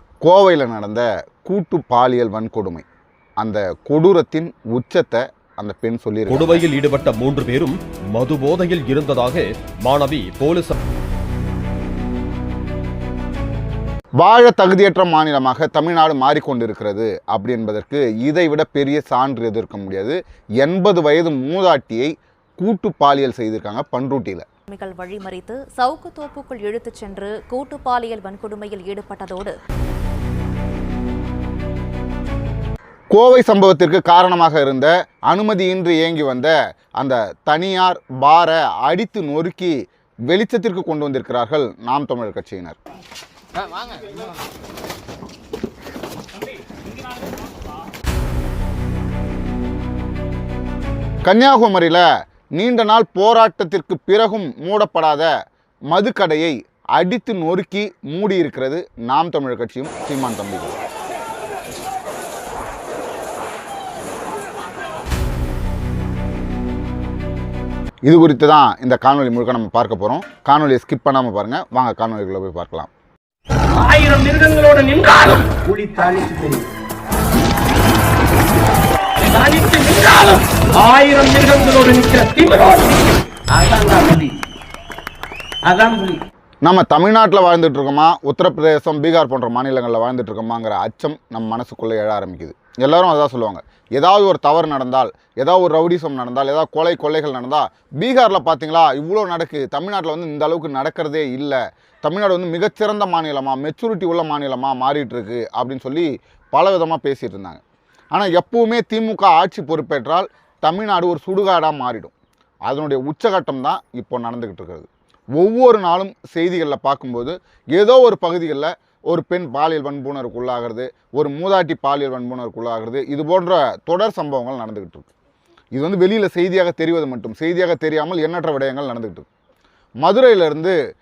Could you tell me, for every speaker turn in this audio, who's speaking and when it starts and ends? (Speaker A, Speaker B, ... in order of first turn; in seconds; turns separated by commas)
Speaker A: 0.2-2.9, Speaker A: 3.4-6.6, Speaker B: 6.3-10.8, Speaker A: 14.2-24.5, Speaker C: 24.7-29.5, Speaker A: 33.1-39.8, Speaker A: 40.3-42.8, Speaker A: 51.2-52.1, Speaker A: 52.6-55.3, Speaker A: 55.9-60.8, Speaker A: 68.1-72.9, Speaker D: 73.8-76.7, Speaker D: 79.2-84.3, Speaker D: 85.7-86.2, Speaker A: 86.6-107.6, Speaker A: 108.1-112.1, Speaker A: 112.7-125.1, Speaker A: 125.8-129.3, Speaker A: 130.0-130.8